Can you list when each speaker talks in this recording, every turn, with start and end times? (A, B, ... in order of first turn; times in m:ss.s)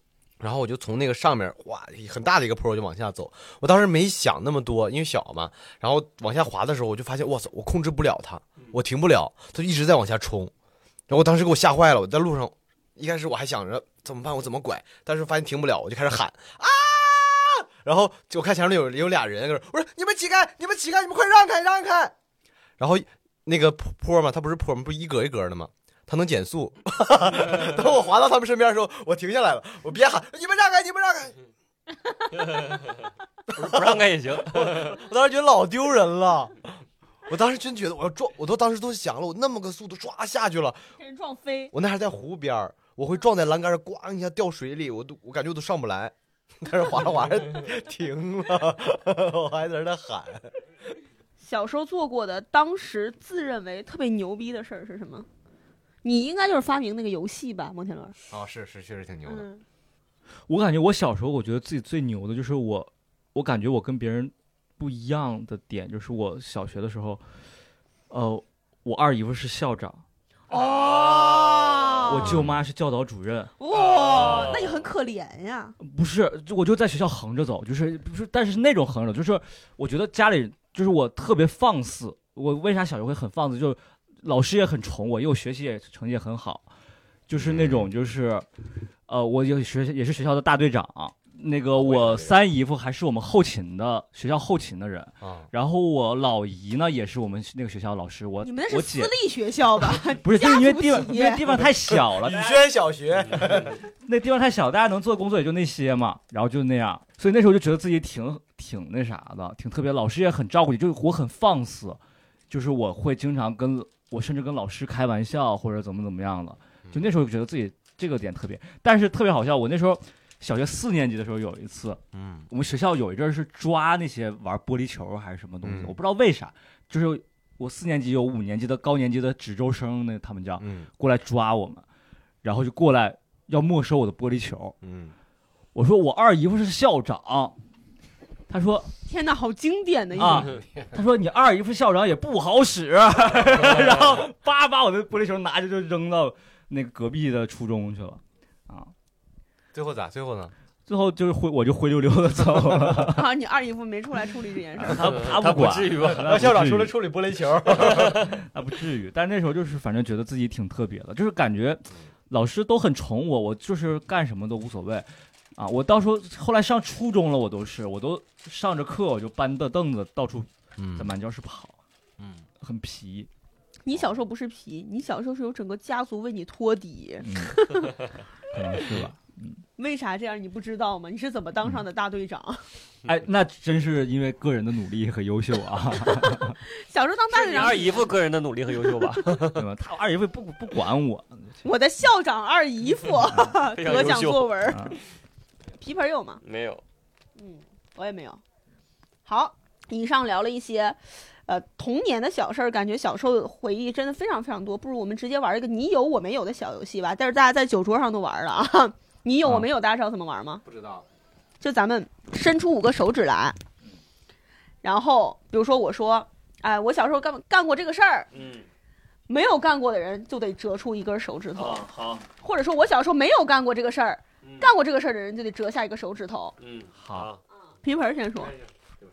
0:00.4-0:10.5 A
0:11.1-0:22.1 A
0:22.8-0:31.4 A
0:32.4-0:32.9 B
0:33.5-0:35.0 B
0:33.5-0:36.6 A
0:37.3-0:40.8 A
0:41.0-0:41.7 C
0:41.7-0:50.6 A
0:51.4-0:55.3 C
0:56.0-0:58.1 C
0:58.3-0:59.5 A
0:59.3-0:59.6 C
1:00.5-1:07.2 D
1:08.1-1:10.0 D
1:10.5-1:12.4 C
1:10.5-1:12.0 B
1:12.0-1:13.5 D
1:12.1-1:12.6 A
1:13.6-1:15.8 C
1:13.7-1:14.8 B
1:15.8-1:26.7 D
1:27.3-1:28.5 D
1:27.4-1:27.9 A
1:29.1-1:39.1 D
1:31.8-1:32.4 A
1:35.2-1:35.5 A
1:38.4-1:41.6 C
1:40.1-1:42.5 D
1:41.9-1:43.8 A
1:43.2-1:43.8 B
1:43.9-2:11.8 D
1:56.8-1:57.1 A
2:02.1-2:02.5 A
2:05.6-2:06.0 A
2:10.6-2:10.9 A
2:12.4-2:14.8 D
2:14.8-2:15.1 A
2:15.7-2:17.6 D
2:18.5-2:18.9 D
2:19.1-2:20.5 C
2:20.1-2:28.9 D
2:20.5-2:20.9 A
2:29.7-2:30.5 A
2:30.9-2:33.3 D
2:33.1-2:35.3 C
2:34.8-2:37.0 D
2:34.9-2:36.4 B
2:36.1-2:38.3 A
2:37.8-2:51.8 D
2:37.9-2:38.2 B
2:50.8-2:51.1 A
2:52.2-2:52.4 A
2:52.6-2:53.3 D
2:53.8-2:58.0 C
2:57.2-2:57.6 D
2:58.5-2:59.6 D
2:59.8-3:02.6 C
3:03.0-3:06.6 D
3:06.0-3:08.1 C
3:07.3-3:09.7 B
3:09.6-3:11.6 D
3:11.6-3:15.0 C
3:13.6-3:14.5 B
3:14.6-3:14.9 D
3:15.7-3:16.4 C
3:16.4-3:16.8 B
3:17.4-3:18.4 C
3:19.3-3:30.6 C
3:30.6-3:31.0 A
3:31.6-3:33.6 C
3:34.8-3:38.3 C
3:38.3-3:38.7 B
3:39.3-3:46.5 C
3:41.6-3:42.2 B
3:44.4-3:44.7 B
3:46.6-3:47.4 B
3:47.0-3:47.3 D
3:47.8-3:48.5 C
3:48.4-3:48.7 B